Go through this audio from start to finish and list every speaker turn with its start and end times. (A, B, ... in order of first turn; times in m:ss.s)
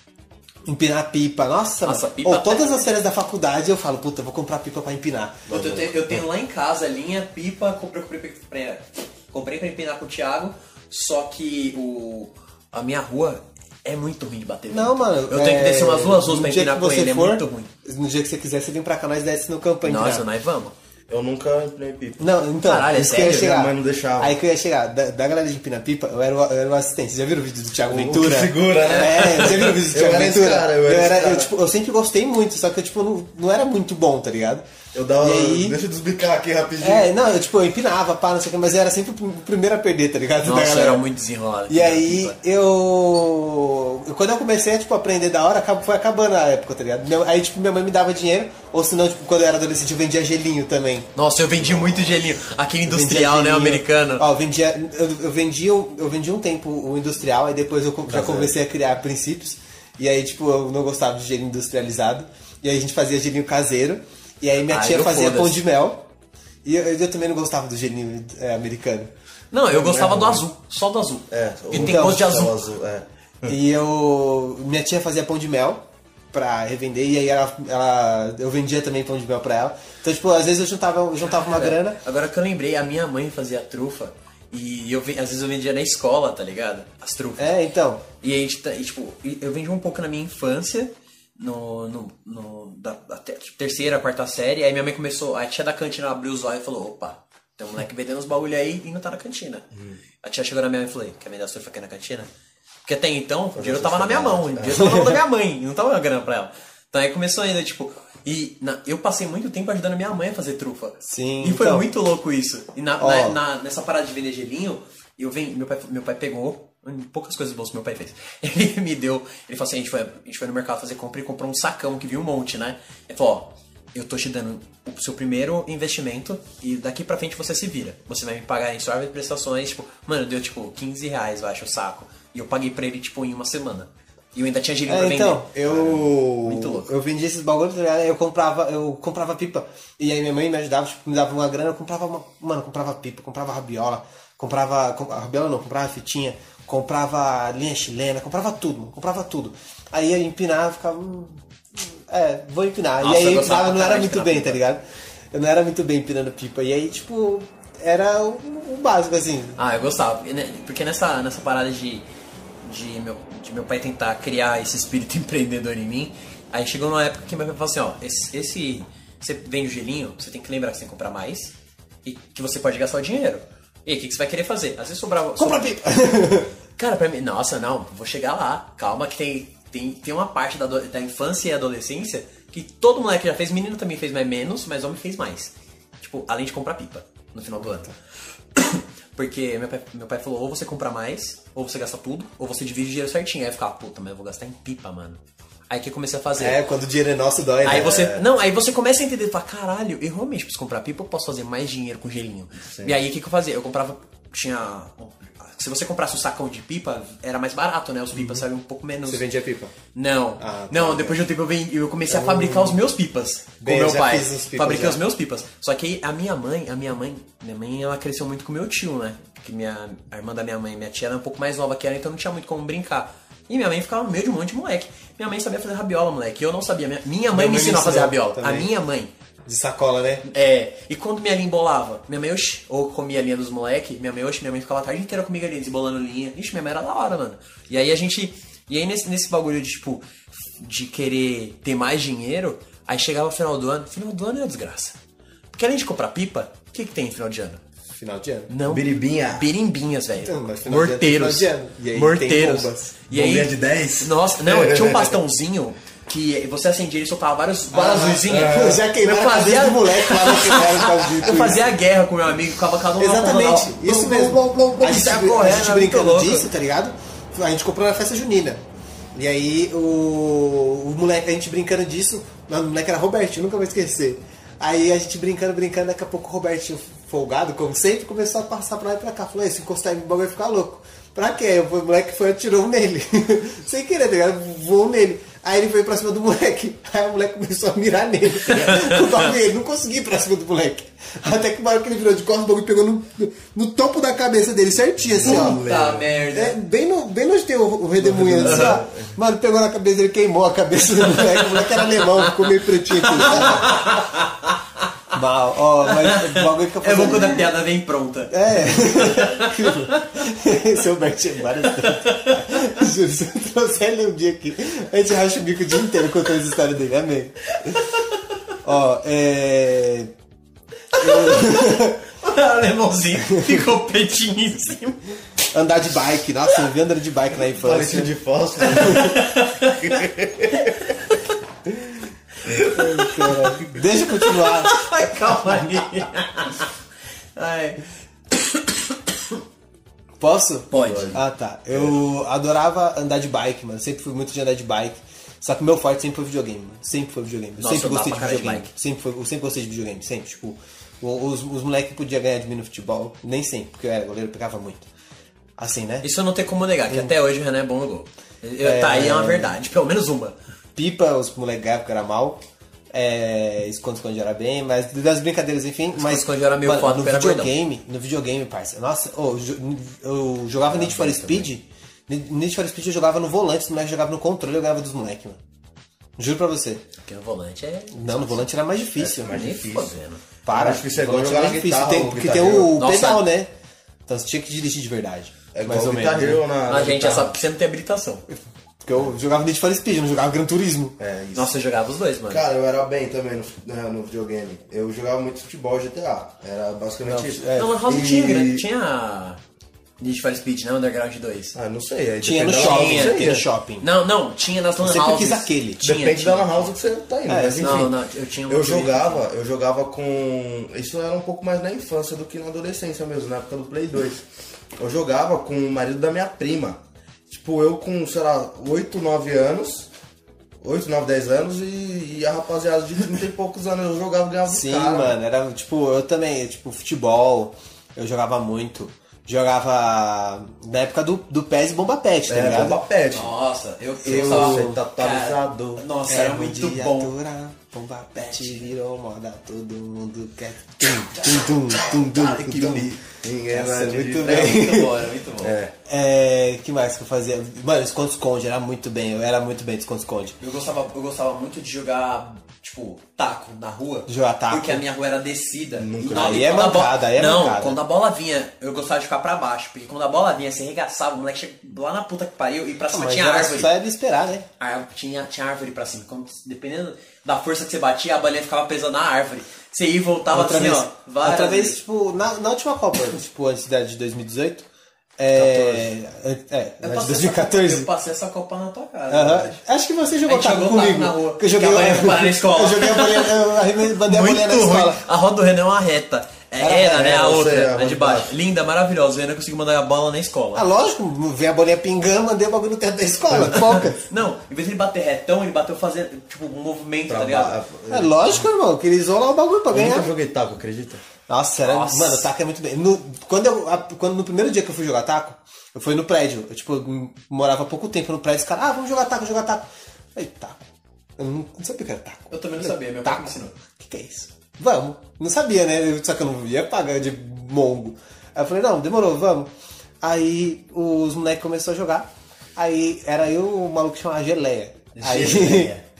0:00.6-0:05.5 A
0:01.8-0:02.9 B
0:05.5-0:06.2 C
0:05.5-0:17.7 B
0:14.7-0:20.3 A
0:19.8-0:20.7 B
0:21.1-0:22.3 C
0:22.2-0:34.6 A
0:22.6-0:23.4 B
0:22.9-0:24.4 C
0:27.9-0:31.5 C
0:28.8-0:29.7 B
0:34.9-0:37.1 C
0:35.2-0:35.8 A
0:36.8-0:41.0 A
0:40.4-0:42.4 B
0:41.7-0:51.1 A
0:51.2-0:54.3 B
0:52.8-1:06.1 A
0:58.1-0:58.5 C
1:04.7-1:05.6 B
1:06.6-1:09.1 A
1:09.5-1:12.6 B
1:09.7-1:10.5 C
1:11.3-1:13.6 C
1:11.7-1:12.3 A
1:13.4-1:22.0 A
1:21.2-1:27.6 B
1:27.4-1:28.0 A
1:28.2-1:39.6 B
1:39.7-1:40.0 C
1:40.2-1:42.3 B
1:42.8-2:16.9 B
1:43.5-1:44.8 C
1:44.7-1:45.2 A
1:51.0-1:51.8 A
1:53.0-1:53.4 A
2:14.9-2:39.6 A
2:33.0-2:34.6 B
2:39.6-2:42.0 B
2:42.6-2:51.5 B
2:52.0-2:55.7 B
2:55.4-2:56.5 A
2:56.8-3:07.9 B
3:08.5-3:16.6 B
3:16.4-3:18.1 A
3:17.6-3:18.2 C
3:17.6-3:29.2 B
3:22.7-3:23.0 C
3:28.2-3:28.4 A
3:29.0-3:29.7 A
3:29.9-3:49.1 B
3:30.4-3:31.2 A
3:32.1-3:32.8 A
3:33.6-3:35.0 A
3:47.3-3:48.7 A
3:49.4-3:50.2 A
3:50.2-4:05.0 B
4:05.5-4:07.6 B
4:07.9-4:08.5 A
4:08.5-4:26.5 B
4:08.7-4:09.5 C
4:10.2-4:13.0 A
4:13.1-4:15.2 C
4:17.7-4:21.6 A
4:18.2-4:19.6 C
4:23.0-4:28.6 A
4:29.1-4:55.6 A
4:48.5-4:49.3 B
4:55.1-4:56.1 C
4:55.2-4:56.6 B
4:56.3-5:04.0 A
4:58.0-4:59.2 C
4:58.4-4:58.8 B
5:01.0-5:05.1 B
5:05.1-5:07.4 A
5:05.8-5:10.2 B
5:08.3-5:17.8 A
5:11.8-5:12.6 B
5:17.6-5:18.4 B
5:18.6-5:20.1 A
5:20.9-5:25.0 B
5:21.0-5:22.0 A
5:23.3-5:23.6 A
5:25.5-5:28.1 A
5:27.5-5:30.9 C
5:28.6-5:31.4 B
5:28.7-5:29.2 A
5:32.4-5:36.7 B
5:32.7-5:34.9 A
5:35.4-5:35.8 A
5:37.4-5:39.3 B
5:40.2-5:54.9 A
5:40.7-5:41.2 B
5:40.8-5:41.1 C
5:47.6-5:48.7 B
5:55.6-5:56.1 A
5:56.0-6:00.4 B
5:56.9-5:57.1 A
5:58.6-5:59.6 A
6:00.7-6:15.4 A
6:06.0-6:07.5 B
6:10.8-6:11.5 B
6:16.2-6:16.8 A
6:17.0-6:18.4 B
6:17.9-6:19.5 A
6:19.0-6:22.8 C
6:19.2-6:20.2 B
6:20.4-6:23.5 A
6:22.7-6:23.2 B
6:24.0-6:26.4 A
6:25.5-6:27.4 C
6:26.7-6:28.2 B
6:28.3-6:31.0 A
6:31.0-6:31.6 C
6:31.3-6:32.4 B
6:32.3-6:38.6 C
6:37.0-6:37.8 A
6:37.5-6:39.4 B
6:40.0-6:41.6 B
6:41.5-6:43.4 C
6:42.2-6:43.9 A
6:42.5-6:43.3 B
6:43.8-6:46.7 B
6:44.8-6:45.9 A
6:45.8-6:48.0 C
6:47.3-6:47.9 A
6:47.6-6:49.2 B
6:48.5-6:54.2 C
6:54.8-6:59.9 C
7:00.6-7:05.2 C
7:04.5-7:12.8 A
7:12.3-7:13.3 C
7:13.1-7:17.1 B
7:14.0-7:14.8 A
7:14.0-7:15.8 C
7:16.1-7:22.9 A
7:18.1-7:18.7 B
7:21.1-7:22.8 B
7:22.2-7:24.7 C
7:23.5-7:25.0 A
7:23.9-7:25.5 B
7:25.4-7:25.7 C
7:25.8-7:30.4 A
7:30.4-7:43.7 B
7:34.1-7:34.8 A
7:35.8-7:36.5 C
7:36.0-7:37.8 A
7:42.9-7:44.5 A
7:44.6-7:51.8 B
7:50.3-7:54.7 A
7:55.2-7:57.9 A
7:55.3-7:55.9 B
7:56.8-7:59.6 B
7:59.1-8:05.0 A
8:00.2-8:10.6 B
8:06.6-8:07.4 A
8:06.8-8:08.3 C
8:10.5-8:14.0 A
8:13.3-8:13.9 C
8:13.5-8:17.6 B
8:17.1-8:18.4 C
8:17.9-8:20.1 A
8:19.7-8:21.0 C
8:21.3-8:39.5 A
8:21.6-8:22.2 B
8:32.3-8:33.6 B
8:40.0-8:45.7 A
8:44.9-8:45.8 B